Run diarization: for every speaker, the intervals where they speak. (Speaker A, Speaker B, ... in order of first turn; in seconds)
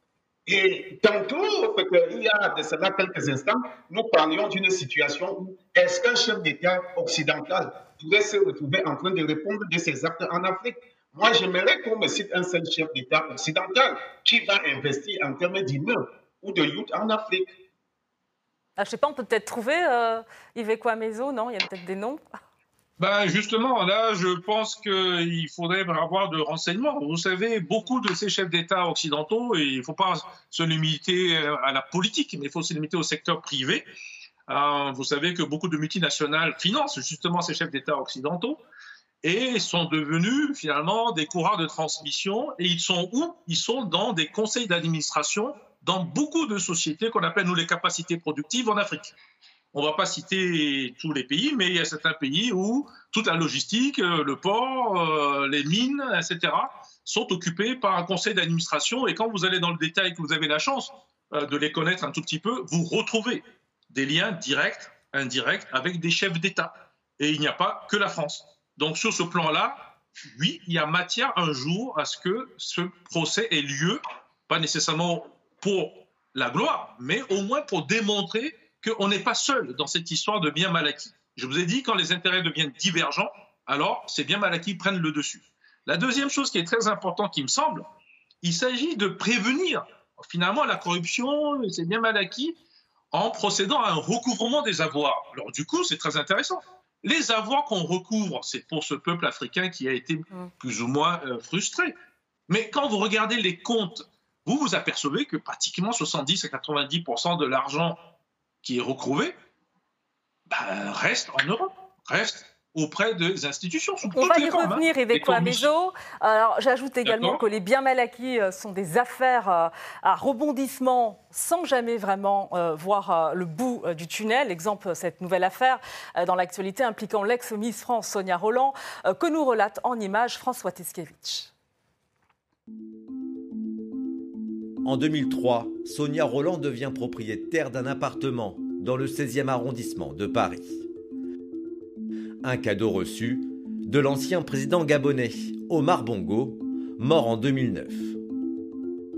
Speaker A: 0.5-17.6
Speaker B: 18.8-22.2, 114.1-131.5
Speaker C: 23.0-33.9, 34.5-38.6, 39.2-49.1, 49.7-87.9, 88.4-92.6, 93.1-101.9, 102.5-108.0, 108.6-109.3, 110.5-115.7, 117.0-117.4
Speaker D: 134.8-140.8, 142.4-148.2